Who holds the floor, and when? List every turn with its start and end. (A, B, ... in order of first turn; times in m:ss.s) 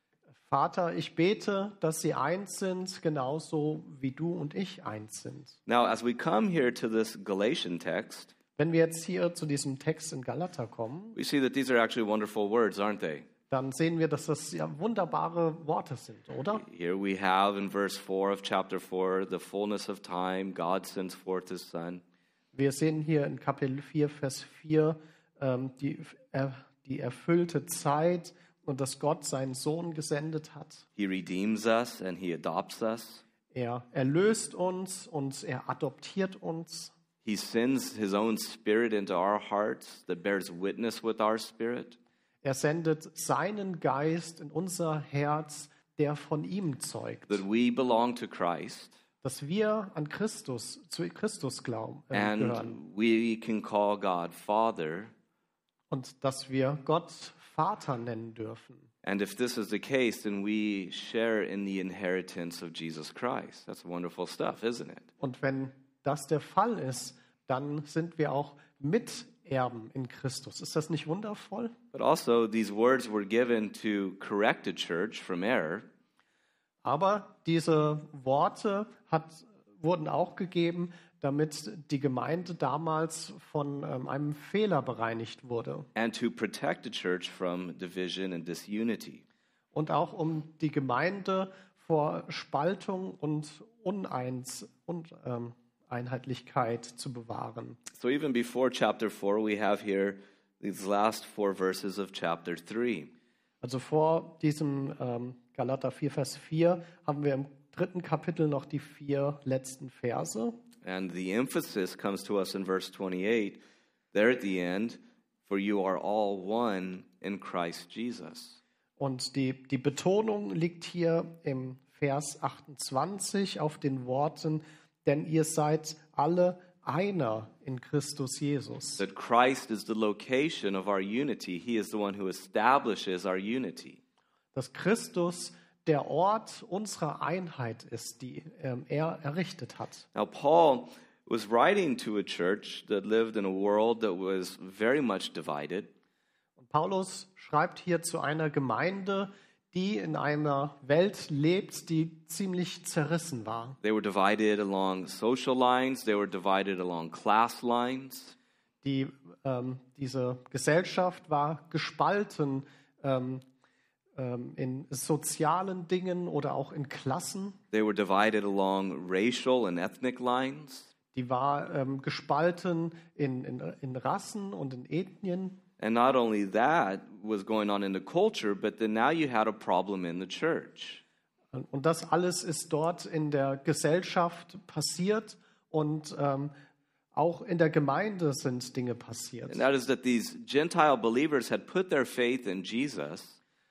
0:00.5-0:05.6 A
0:05.7-0:08.3 B
0:08.6-0:11.2 A
0:11.2-0:13.3 B
0:13.5-0:16.6 A
0:16.5-0:22.0 B
0:22.5-0:30.8 A
0:31.0-0:33.2 B
0:33.5-0:36.9 A
0:37.2-0:42.0 B
0:42.4-0:47.4 A
0:47.3-0:49.0 B
0:49.2-0:52.8 A
0:52.1-0:55.1 B
0:55.9-0:58.9 A
0:59.0-1:05.1 B
1:05.2-1:11.7 A
1:11.9-1:15.9 B
1:16.8-1:25.9 A
1:26.0-1:29.2 B
1:29.7-1:37.8 A
1:37.9-1:43.1 B
1:43.6-1:50.6 A
1:50.8-1:53.6 B
1:54.1-1:58.6 B
1:59.0-2:09.0 A
2:09.0-2:14.0 B
2:14.5-2:20.1 A
2:20.1-2:25.9 B
2:26.6-2:33.8 A
2:33.8-2:38.4 B
2:38.8-2:43.4 A
2:44.2-2:47.6 A
2:47.7-2:50.9 B
2:51.1-2:55.6 A
2:55.8-3:01.0 B
3:01.5-3:06.5 A
3:07.1-3:09.6 A
3:09.5-3:13.4 B